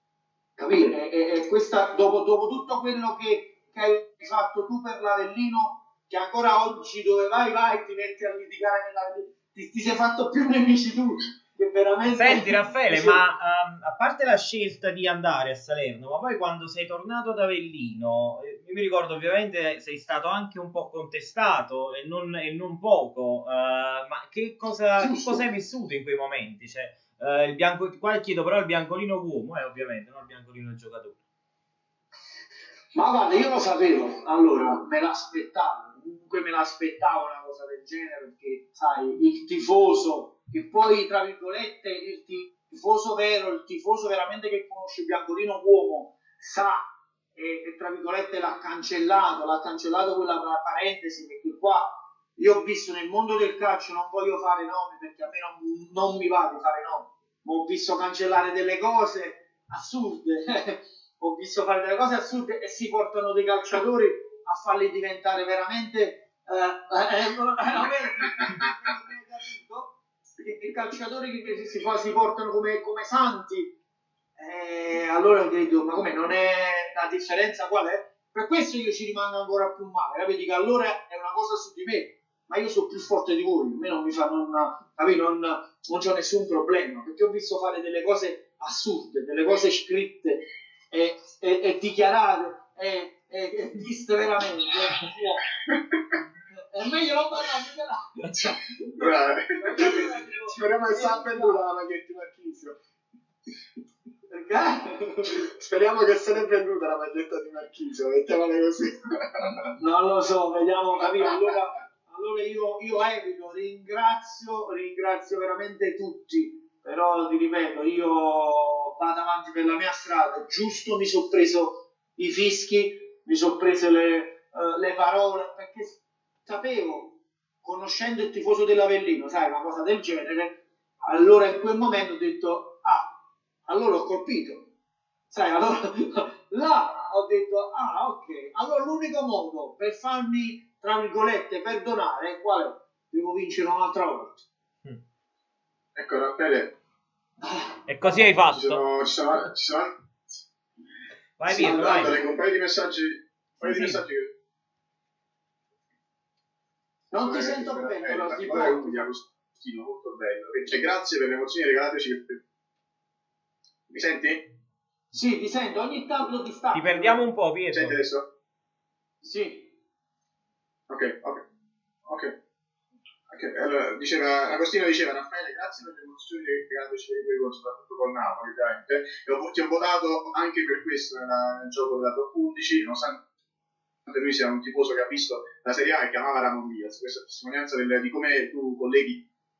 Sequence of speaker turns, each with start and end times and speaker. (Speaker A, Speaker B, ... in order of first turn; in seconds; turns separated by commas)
Speaker A: 0.6-13.2, Speaker B: 12.2-31.2, Speaker A: 25.0-25.5, Speaker A: 32.9-46.8, Speaker A: 47.4-73.8, Speaker A: 74.4-95.5, Speaker A: 96.6-101.6, Speaker C: 99.0-102.8, Speaker A: 104.3-105.4, Speaker C: 105.3-109.6, Speaker A: 109.7-134.7, Speaker A: 135.3-144.5, Speaker D: 145.9-146.8, Speaker B: 147.9-148.8, Speaker D: 148.5-149.9, Speaker B: 151.4-152.2, Speaker D: 151.5-154.3, Speaker B: 153.6-154.0, Speaker A: 157.1-159.1, Speaker D: 157.2-162.4, Speaker D: 163.9-164.4, Speaker A: 165.1-167.2, Speaker B: 166.7-168.0, Speaker D: 167.7-168.2, Speaker A: 169.2-169.7, Speaker D: 170.9-171.4, Speaker D: 172.1-172.3, Speaker D: 173.3-183.2, Speaker D: 184.1-189.2